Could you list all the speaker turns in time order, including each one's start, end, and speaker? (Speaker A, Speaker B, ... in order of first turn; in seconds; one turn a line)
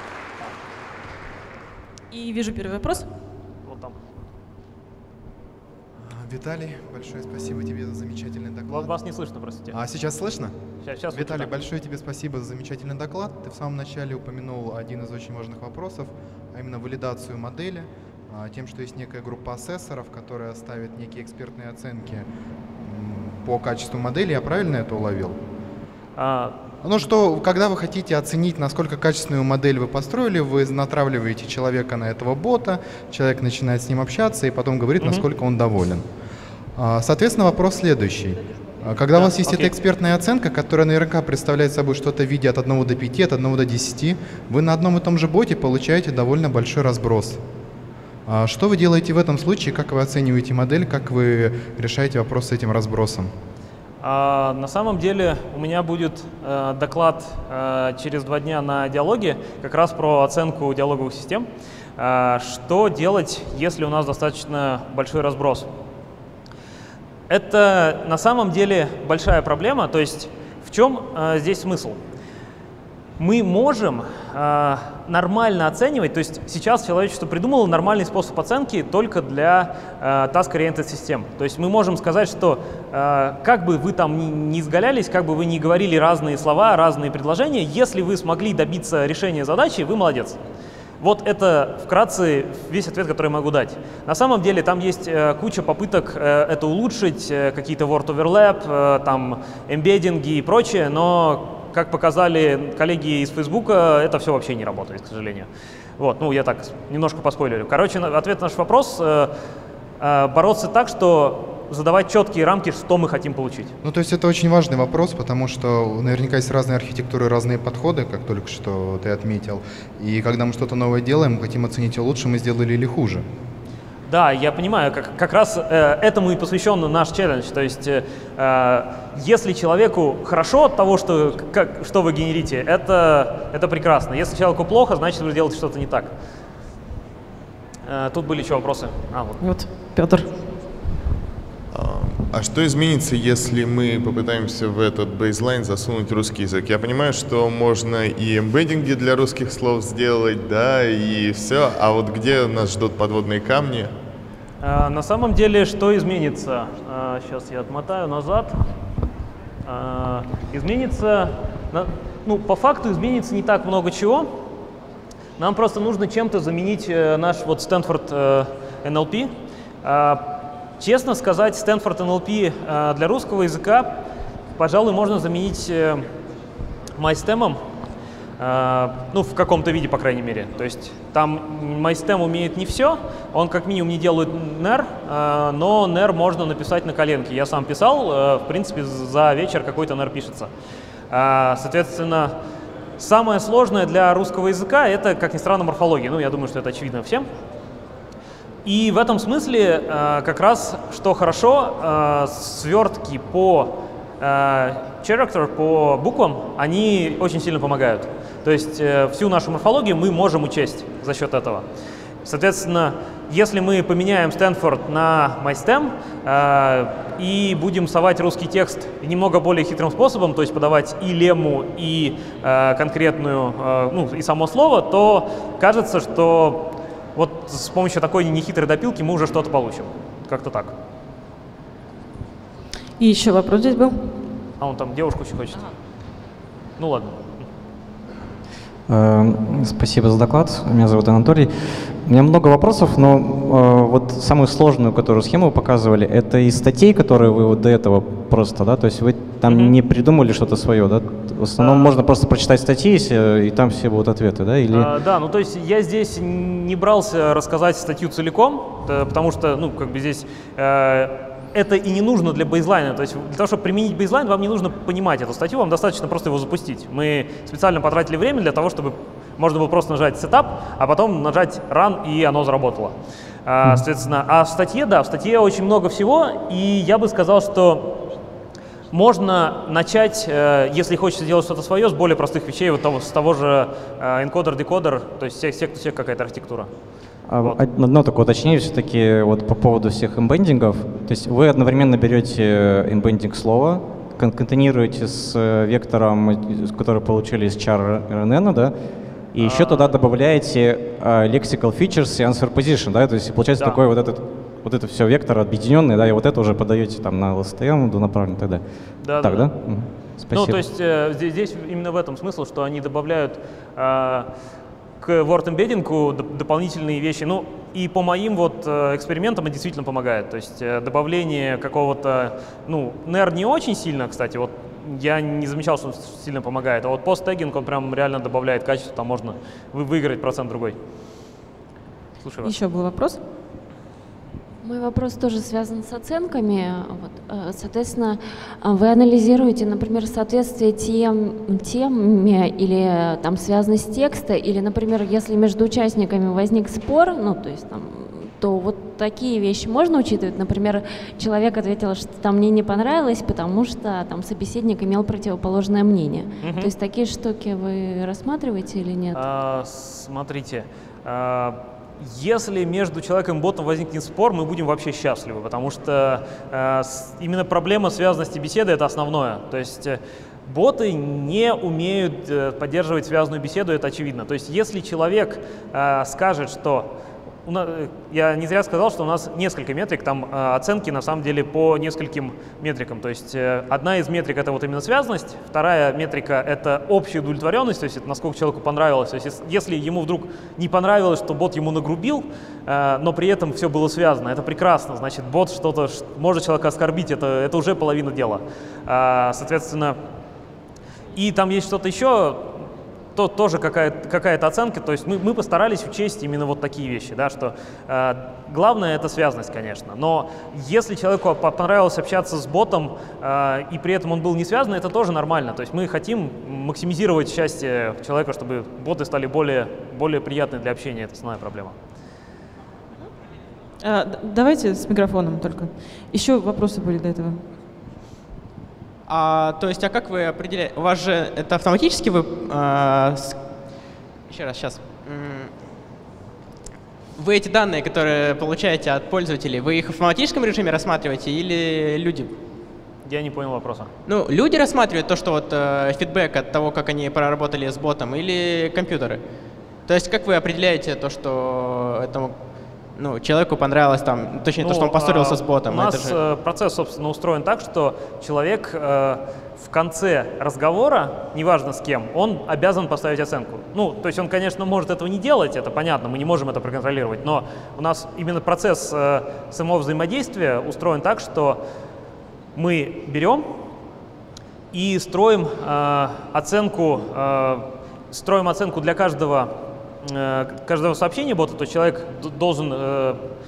Speaker A: 2.1-3.1
Speaker B: 3.6-4.0
Speaker C: 6.0-8.9
Speaker B: 8.7-9.8
Speaker C: 9.7-10.5
Speaker B: 10.8-11.5
Speaker C: 11.1-22.3
Speaker C: 22.8-25.4
Speaker B: 26.1-26.5
Speaker C: 26.8-36.0
Speaker C: 36.8-47.4
Speaker B: 39.2-39.7
Speaker C: 48.2-53.3
Speaker B: 54.0-65.7
Speaker B: 67.3-72.0
Speaker B: 73.2-90.4
Speaker B: 91.0-109.3
Speaker B: 110.0-113.7
Speaker C: 113.8-123.2
Speaker B: 124.1-136.1
Speaker B: 137.8-139.4
Speaker A: 139.4-140.3
Speaker D: 141.7-153.9
Speaker B: 154.6-158.6
Speaker B: 159.6-164.3
Speaker B: 165.4-169.3
Speaker B: 169.8-174.0
Speaker B: 174.6-176.0
Speaker B: 177.0-177.6
Speaker B: 178.4-190.5
Speaker B: 191.1-192.3
Speaker B: 193.0-197.3
Speaker B: 198.6-211.6
Speaker B: 212.2-230.8
Speaker A: 233.0-234.1
Speaker B: 234.6-235.7
Speaker B: 236.8-237.3
Speaker E: 238.9-254.9
Speaker B: 249.4-249.8
Speaker B: 251.6-252.0
Speaker B: 254.7-278.1
Speaker B: 278.9-286.7
Speaker E: 287.3-310.6
Speaker B: 299.4-299.9
Speaker B: 309.0-314.3
Speaker B: 315.0-330.8
Speaker B: 332.2-332.5
Speaker A: 332.4-333.2
Speaker F: 334.6-359.2
Speaker B: 356.4-356.7
Speaker B: 359.1-376.9
Speaker B: 377.4-400.0
Speaker B: 401.1-421.8
Speaker A: 423.8-427.4
Speaker G: 429.1-433.4
Speaker G: 434.3-435.5
Speaker G: 437.1-442.4
Speaker B: 443.0-443.9
Speaker G: 444.1-449.2
Speaker G: 449.8-456.2
Speaker B: 454.6-471.6
Speaker B: 472.5-473.6
Speaker B: 474.7-483.2